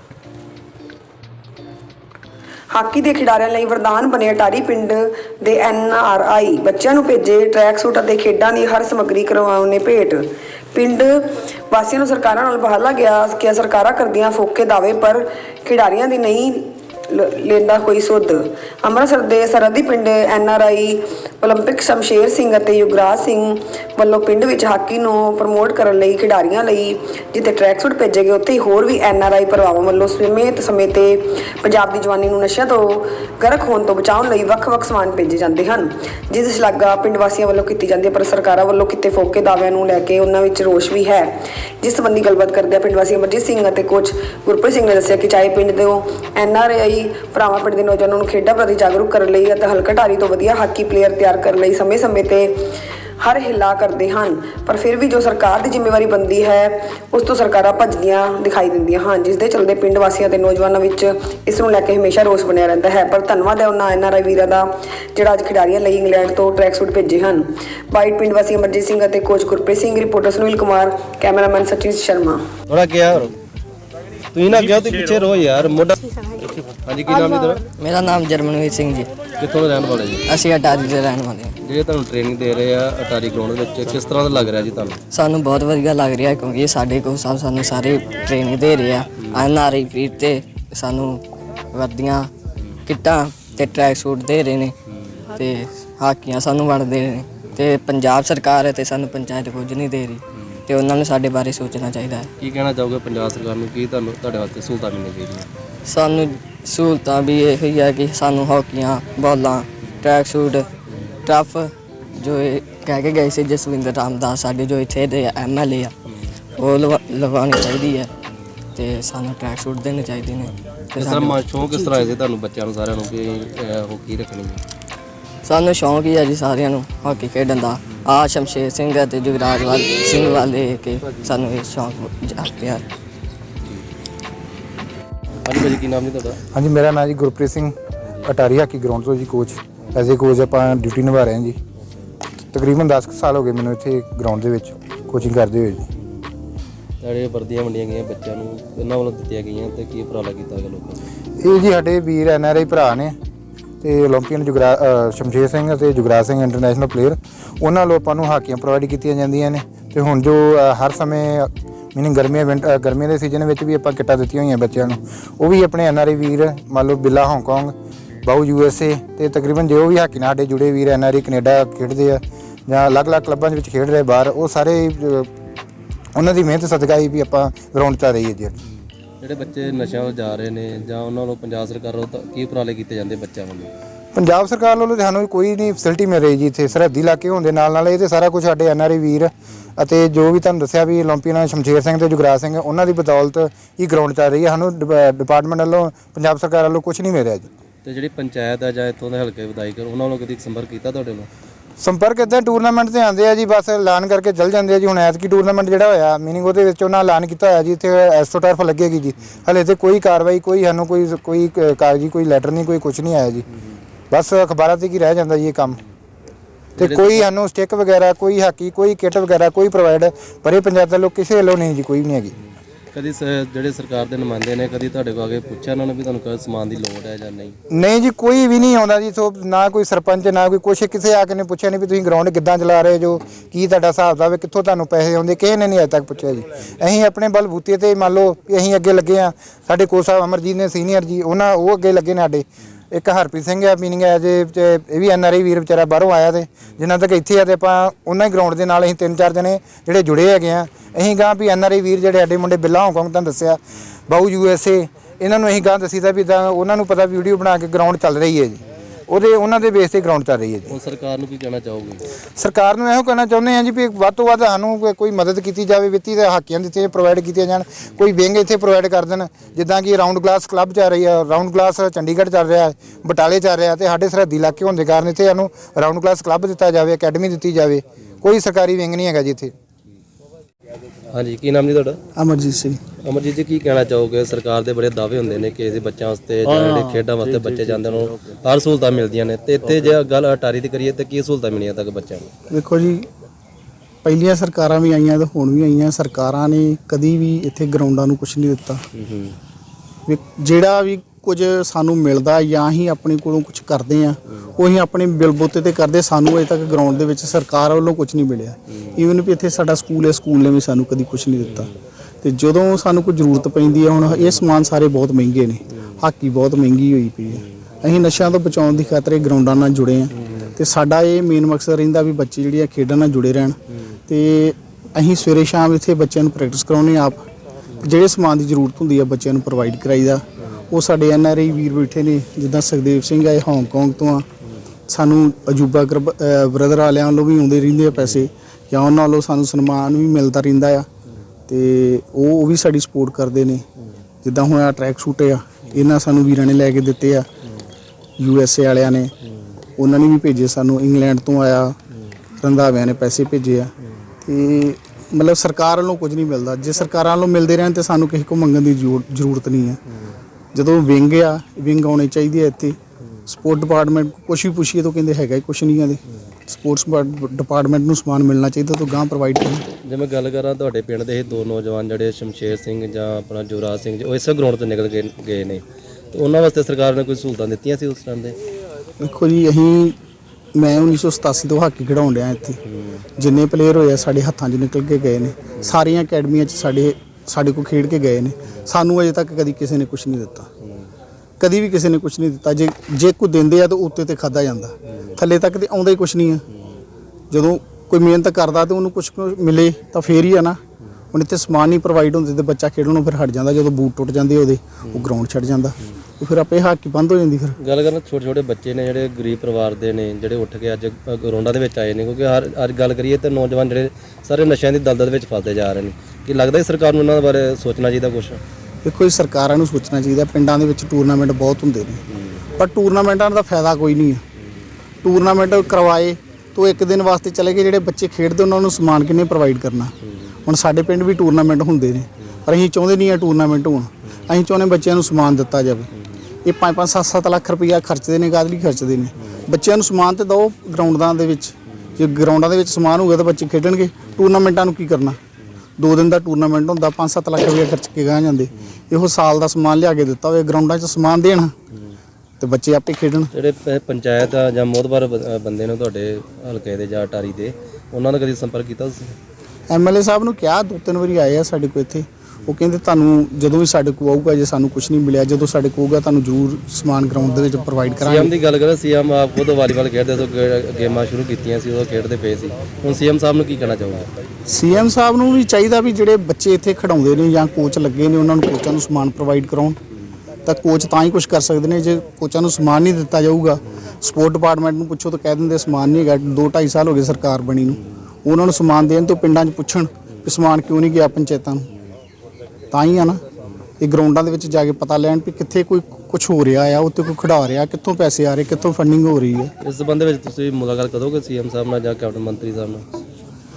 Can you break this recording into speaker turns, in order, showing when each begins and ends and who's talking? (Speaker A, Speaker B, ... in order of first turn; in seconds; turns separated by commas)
Speaker A: 2.7-72.5, Speaker B: 72.7-73.3, Speaker B: 74.3-76.1, Speaker B: 76.8-77.6, Speaker C: 77.8-79.1, Speaker B: 79.4-80.3, Speaker C: 80.3-81.5, Speaker B: 81.6-85.0, Speaker C: 85.1-91.2, Speaker C: 91.7-92.3, Speaker C: 92.8-94.7, Speaker C: 95.3-102.3, Speaker B: 102.4-105.5, Speaker C: 105.8-110.7, Speaker C: 111.2-115.9, Speaker C: 116.6-118.1, Speaker C: 118.8-121.9, Speaker B: 121.0-124.6, Speaker C: 125.4-132.8, Speaker B: 135.4-136.4, Speaker A: 136.6-137.6, Speaker D: 136.6-137.7, Speaker D: 138.2-139.6, Speaker A: 138.9-139.5, Speaker A: 140.1-140.5, Speaker D: 140.1-141.5, Speaker D: 142.5-144.4, Speaker A: 143.1-144.9, Speaker D: 145.1-145.8, Speaker B: 147.0-151.0, Speaker D: 151.4-153.1, Speaker A: 151.7-152.5, Speaker D: 153.8-154.5, Speaker A: 153.9-156.9, Speaker D: 155.3-158.3, Speaker A: 157.7-160.3, Speaker D: 159.3-164.5, Speaker A: 160.9-161.3, Speaker A: 162.0-165.0, Speaker D: 165.4-167.7, Speaker A: 165.5-166.4, Speaker D: 168.2-174.8, Speaker A: 168.4-169.0, Speaker A: 170.5-171.2, Speaker A: 173.6-174.0, Speaker A: 174.7-175.2, Speaker D: 176.2-178.5, Speaker A: 177.3-178.1, Speaker B: 179.2-183.7, Speaker D: 184.1-197.4, Speaker A: 185.1-186.6, Speaker A: 188.0-189.2, Speaker A: 190.7-192.6, Speaker A: 193.2-193.7, Speaker A: 194.2-194.8, Speaker A: 195.7-196.5, Speaker B: 197.8-201.3, Speaker D: 201.8-203.9, Speaker A: 203.0-209.1, Speaker D: 204.5-210.7, Speaker A: 210.0-212.4, Speaker D: 211.3-213.3, Speaker D: 214.1-215.8, Speaker A: 214.1-215.7, Speaker B: 216.8-217.3, Speaker D: 216.8-221.9, Speaker A: 217.5-222.3, Speaker B: 222.9-227.6, Speaker D: 227.8-228.4, Speaker A: 227.9-242.4, Speaker D: 229.6-229.9, Speaker D: 230.8-231.2, Speaker D: 232.1-233.4, Speaker D: 236.1-237.2, Speaker D: 238.4-239.2, Speaker D: 240.1-242.4, Speaker D: 243.0-249.9, Speaker A: 243.0-246.2, Speaker A: 247.0-248.6, Speaker A: 249.5-251.8, Speaker D: 250.5-258.6, Speaker A: 252.6-253.4, Speaker A: 254.2-254.8, Speaker A: 255.3-256.1, Speaker A: 256.7-258.3, Speaker D: 259.1-260.6, Speaker A: 259.3-260.6, Speaker B: 260.7-262.1, Speaker D: 262.4-279.5, Speaker A: 262.7-263.7, Speaker A: 264.7-266.8, Speaker A: 267.3-267.8, Speaker A: 268.6-270.1, Speaker A: 272.0-272.5, Speaker A: 273.9-276.4, Speaker A: 276.9-277.5, Speaker A: 278.4-279.3, Speaker B: 281.1-282.0, Speaker E: 282.1-282.8, Speaker B: 283.0-292.3, Speaker E: 292.5-293.1, Speaker E: 294.0-298.8, Speaker B: 298.9-299.4, Speaker E: 300.1-327.3, Speaker E: 327.8-334.2, Speaker E: 334.9-340.9, Speaker E: 341.5-343.6, Speaker E: 344.2-347.3, Speaker E: 348.2-349.1, Speaker E: 349.8-351.8, Speaker E: 352.4-353.7, Speaker E: 354.2-359.8, Speaker E: 360.5-369.6, Speaker B: 369.8-378.4, Speaker E: 379.0-379.9, Speaker E: 380.5-382.6, Speaker E: 383.2-390.5, Speaker E: 391.4-396.4, Speaker E: 397.3-400.6, Speaker E: 401.1-407.6, Speaker B: 407.6-418.4, Speaker E: 418.8-422.0, Speaker B: 422.1-422.4, Speaker E: 422.6-424.2, Speaker E: 425.0-429.9, Speaker E: 430.4-435.9, Speaker E: 436.4-445.2, Speaker E: 445.8-451.5, Speaker E: 452.4-453.3, Speaker B: 453.3-459.1, Speaker E: 459.7-468.3, Speaker B: 468.0-474.1, Speaker E: 474.4-479.8, Speaker E: 480.4-491.7, Speaker E: 492.7-493.2, Speaker E: 493.8-499.5, Speaker B: 499.6-502.8